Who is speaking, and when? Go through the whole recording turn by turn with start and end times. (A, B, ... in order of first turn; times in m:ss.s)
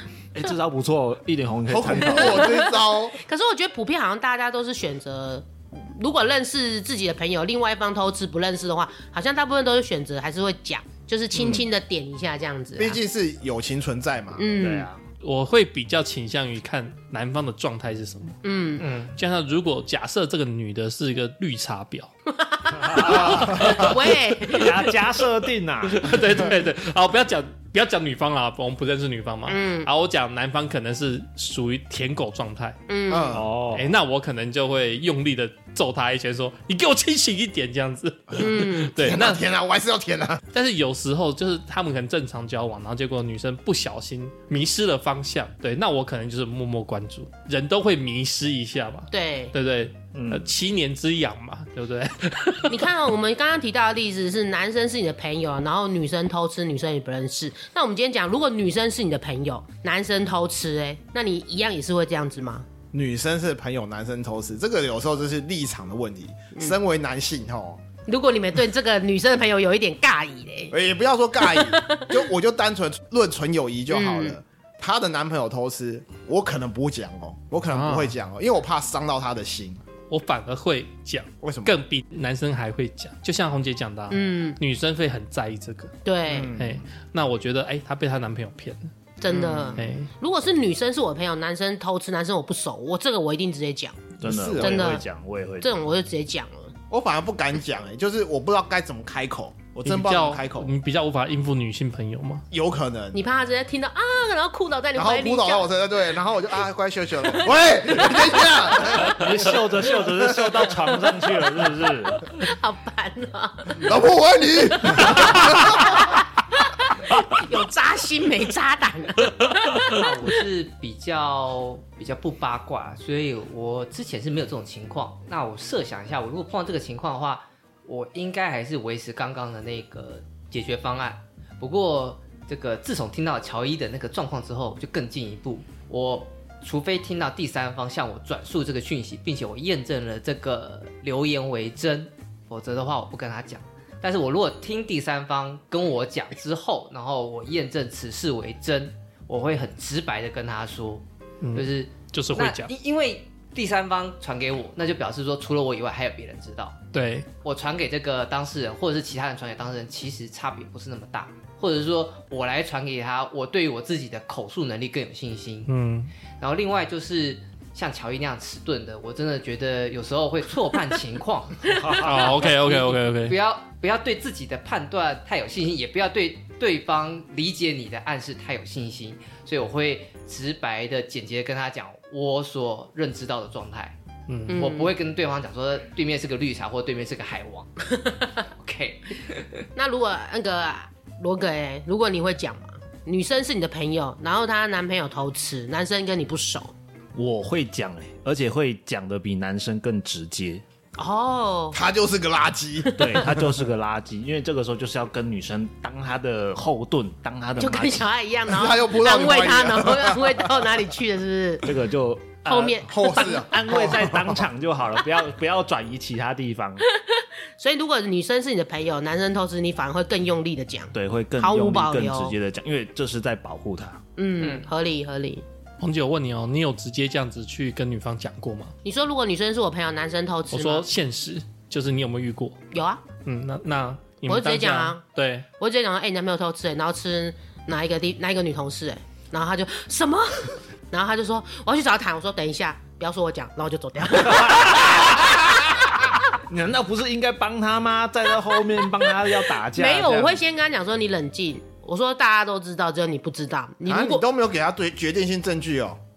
0:00.3-0:02.5 A
0:01.7-0:03.2 B
0:02.0-0:13.0 C
0:11.4-0:11.6 B
0:12.8-0:14.4 B
0:14.4-0:14.9 C
0:14.5-0:15.0 A
0:15.2-0:18.4 D
0:18.4-0:18.8 C
0:18.8-0:19.2 E
0:19.1-0:22.1 D
0:22.3-0:24.8 C
0:22.9-0:24.0 D
0:22.9-0:23.9 A
0:23.0-0:23.8 B
0:24.5-0:26.1 A
0:25.8-0:32.8 D
0:29.5-0:29.9 C
0:32.9-0:33.4 C
0:33.1-0:33.5 B
0:33.3-0:33.9 A
0:33.7-0:39.4 D
0:38.4-0:39.0 C
0:39.0-0:40.4 B
0:40.5-0:52.9 D
0:49.1-0:49.5 C
0:50.1-0:50.5 A
0:52.7-1:02.6 C
1:02.9-1:07.8 B
1:08.0-1:10.7 C
1:10.7-1:19.8 B
1:11.4-1:12.1 C
1:13.9-1:14.4 C
1:17.7-1:18.1 D
1:20.1-1:25.9 D
1:21.4-1:21.8 B
1:24.1-1:24.6 C
1:26.0-1:26.5 C
1:26.3-1:26.8 B
1:26.6-1:28.9 D
1:29.2-1:34.0 C
1:29.3-1:29.8 B
1:29.8-1:30.1 D
1:34.2-1:35.7 A
1:34.2-1:35.0 B
1:34.6-1:35.0 C
1:35.6-1:36.7 C
1:36.9-1:40.7 B
1:39.8-1:42.4 D
1:42.5-1:43.2 B
1:43.1-1:45.7 C
1:44.9-1:50.6 B
1:47.4-1:49.2 C
1:49.0-1:52.3 A
1:52.2-1:53.9 C
1:53.7-1:56.0 B
1:54.8-2:00.1 C
1:59.7-2:36.8 E
2:31.4-2:32.7 D
2:36.9-2:37.3 D
2:37.4-2:45.7 E
2:45.7-2:46.1 D
2:46.4-3:07.8 E
2:51.6-2:52.5 A
2:52.0-2:53.4 D
3:04.3-3:04.7 D
3:04.5-3:04.9 C
3:08.4-3:09.6 E
3:09.7-3:16.7 C
3:17.1-3:20.6 A
3:21.0-3:21.8 C
3:21.7-3:23.4 B
3:22.8-3:23.2 C
3:23.0-3:28.0 A
3:27.6-3:31.7 C
3:28.5-3:30.7 B
3:31.6-3:36.8 A
3:32.4-3:33.9 C
3:32.8-3:34.5 B
3:36.9-3:42.3 C
3:40.9-3:44.0 A
3:44.2-3:45.4 C
3:45.8-3:48.7 D
3:48.8-3:50.9 C
3:50.5-3:52.6 D
3:52.7-3:53.0 C
3:53.2-3:55.5 D
3:54.2-3:55.0 C
3:55.6-4:06.0 C
4:04.2-4:05.3 A
4:06.5-4:10.4 A
4:09.7-4:14.2 C
4:13.8-4:16.0 B